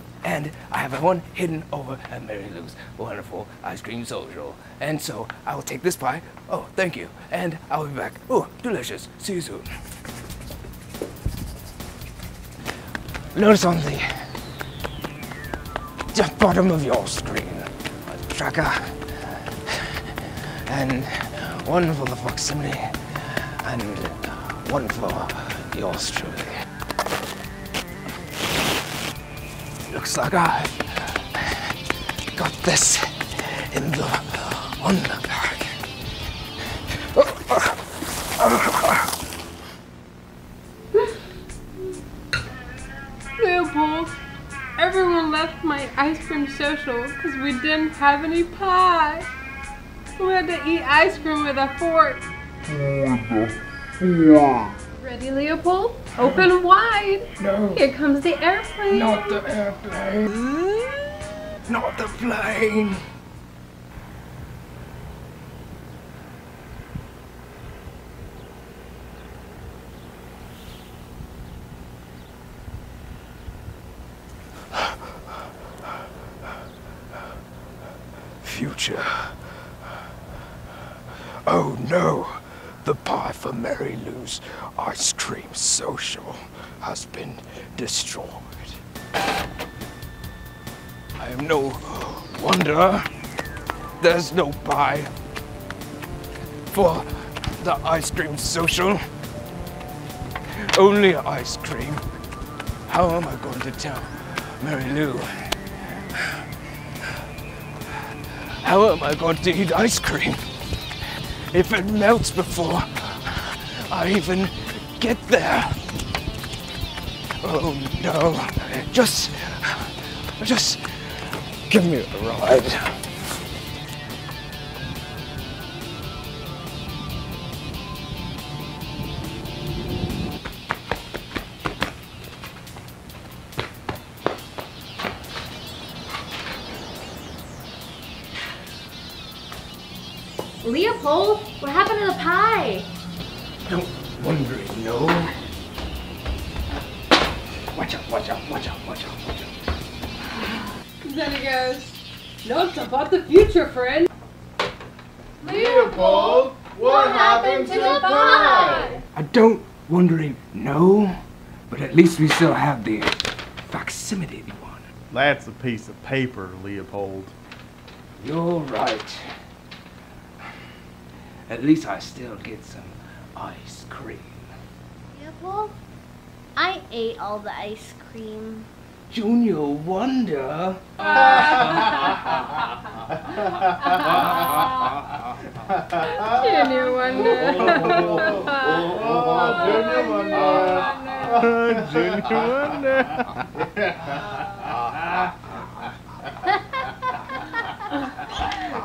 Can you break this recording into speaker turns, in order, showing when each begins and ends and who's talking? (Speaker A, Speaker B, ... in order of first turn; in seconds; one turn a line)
Speaker A: 0.2-9.7
Speaker A: 13.3-14.1
Speaker A: 16.1-26.6
Speaker A: 29.9-31.7
Speaker A: 32.3-35.8
Speaker A: 36.8-39.1
Speaker B: 43.4-44.2
Speaker B: 44.8-49.3
Speaker B: 50.2-52.2
Speaker B: 55.0-59.4
Speaker A: 56.1-56.5
Speaker A: 57.4-57.9
Speaker A: 58.9-60.5
Speaker A: 61.6-63.0
Speaker A: 78.4-79.5
Speaker A: 81.4-88.8
Speaker A: 91.2-93.1
Speaker A: 94.0-95.1
Speaker A: 96.7-99.0
Speaker A: 100.5-102.0
Speaker A: 102.8-106.5
Speaker A: 108.0-110.4
Speaker A: 111.1-115.8
Speaker A: 117.4-123.0
Speaker C: 140.6-142.9
Speaker A: 143.7-145.3
Speaker A: 147.7-149.5
Speaker B: 151.0-154.1
Speaker B: 155.4-159.0
Speaker D: 155.4-159.0
Speaker C: 157.1-158.7
Speaker A: 159.1-164.9
Speaker D: 165.1-167.3
Speaker A: 168.2-169.3
Speaker A: 171.5-174.5
Speaker C: 175.1-175.8
Speaker C: 176.6-178.7
Speaker A: 179.1-181.6
Speaker B: 181.0-182.2
Speaker B: 183.8-184.7
Speaker B: 185.9-191.6
Speaker D: 187.2-193.7